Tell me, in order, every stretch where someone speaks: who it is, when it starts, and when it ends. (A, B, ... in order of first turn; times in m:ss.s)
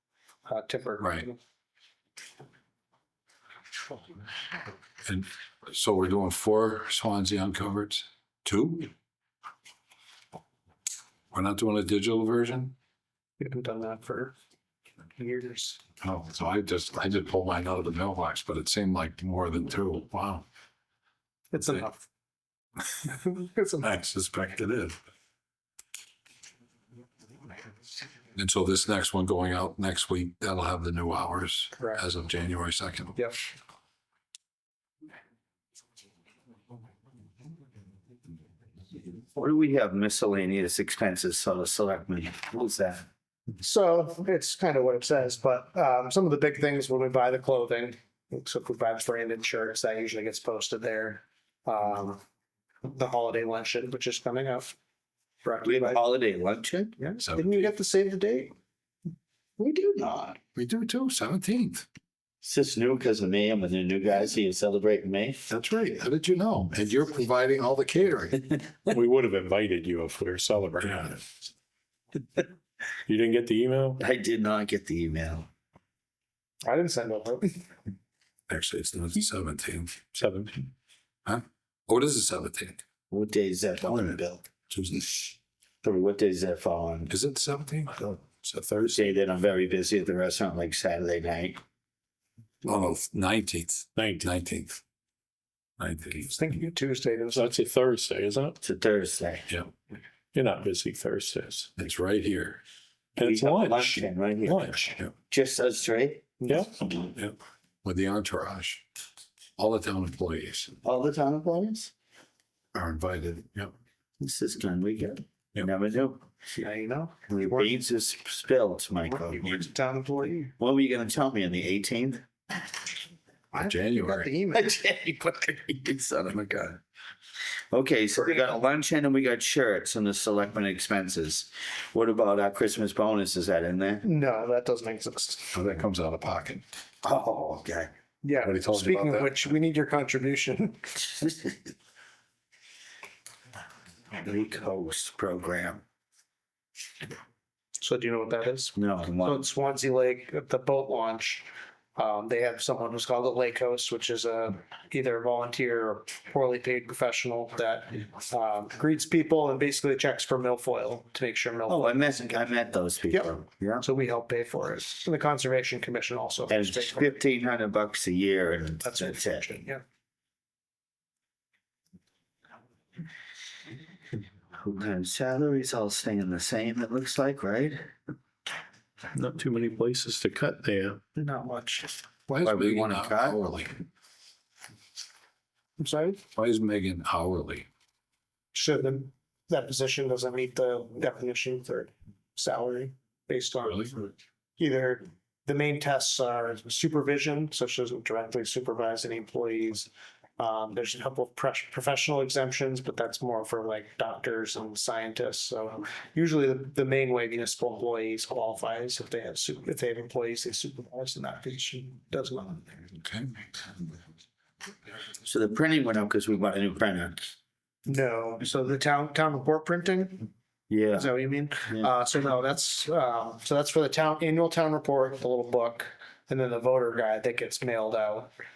0:00.4-0:01.4 A
0:05.0-0:08.9 B
0:11.3-0:12.7 B
0:13.4-0:14.3 A
0:15.2-0:15.8 A
0:16.0-0:20.4 B
0:21.5-0:22.0 A
0:23.1-0:23.8 A
0:23.8-0:25.0 B
0:28.4-0:33.2 B
0:31.8-0:32.0 A
0:39.4-0:43.0 C
0:43.6-0:52.2 A
0:52.8-0:54.7 A
0:55.4-0:56.0 A
0:55.6-0:57.0 C
0:57.0-0:58.5 A
0:57.2-0:57.5 B
0:59.6-1:00.4 C
1:00.5-1:01.8 B
1:02.4-1:05.4 C
1:05.5-1:08.5 B
1:08.9-1:11.3 D
1:13.0-1:14.0 D
1:14.0-1:15.5 C
1:16.6-1:17.7 A
1:18.5-1:20.2 B
1:20.2-1:20.7 D
1:21.2-1:22.8 B
1:23.1-1:24.5 C
1:24.7-1:25.3 B
1:25.8-1:27.1 C
1:27.1-1:28.8 B
1:28.7-1:29.0 D
1:28.9-1:31.6 C
1:32.6-1:34.8 B
1:34.0-1:34.3 D
1:35.8-1:36.3 B
1:36.2-1:37.5 A
1:37.3-1:38.6 D
1:38.6-1:39.5 C
1:40.3-1:41.7 D
1:41.8-1:42.6 B
1:43.2-1:44.8 C
1:43.2-1:45.0 D
1:45.3-1:46.3 C
1:46.5-1:46.8 D
1:47.2-1:48.8 B
1:49.6-1:50.7 B
1:50.8-1:51.9 C
1:52.7-1:53.7 B
1:54.2-1:56.2 C
1:56.5-1:57.8 A
1:57.3-1:59.6 C
1:59.0-2:00.5 A
2:00.6-2:02.2 C
2:03.5-2:04.8 A
2:03.5-2:04.3 B
2:04.5-2:06.8 C
2:07.7-2:14.0 C
2:14.0-2:15.6 A
2:15.5-2:16.6 B
2:17.0-2:17.9 C
2:18.2-2:21.0 A
2:18.4-2:19.4 B
2:21.1-2:21.7 C
2:24.2-2:25.8 C
2:27.8-2:42.0 A
2:28.8-2:29.4 C
2:41.7-2:43.8 C
2:43.8-2:47.1 A
2:46.5-2:49.5 C
2:48.8-2:49.8 A
2:54.6-2:57.9 C
2:59.1-3:01.0 D
3:01.2-3:01.9 A
3:02.3-3:03.7 B
3:02.4-3:03.4 C
3:05.8-3:06.2 A
3:06.4-3:07.6 B
3:08.5-3:32.9 A
3:13.6-3:13.9 B
3:33.0-3:33.4 B
3:35.2-3:37.3 C
3:37.8-3:40.3 A
3:40.7-3:41.1 C
3:40.9-3:48.3 A
3:41.6-3:41.9 C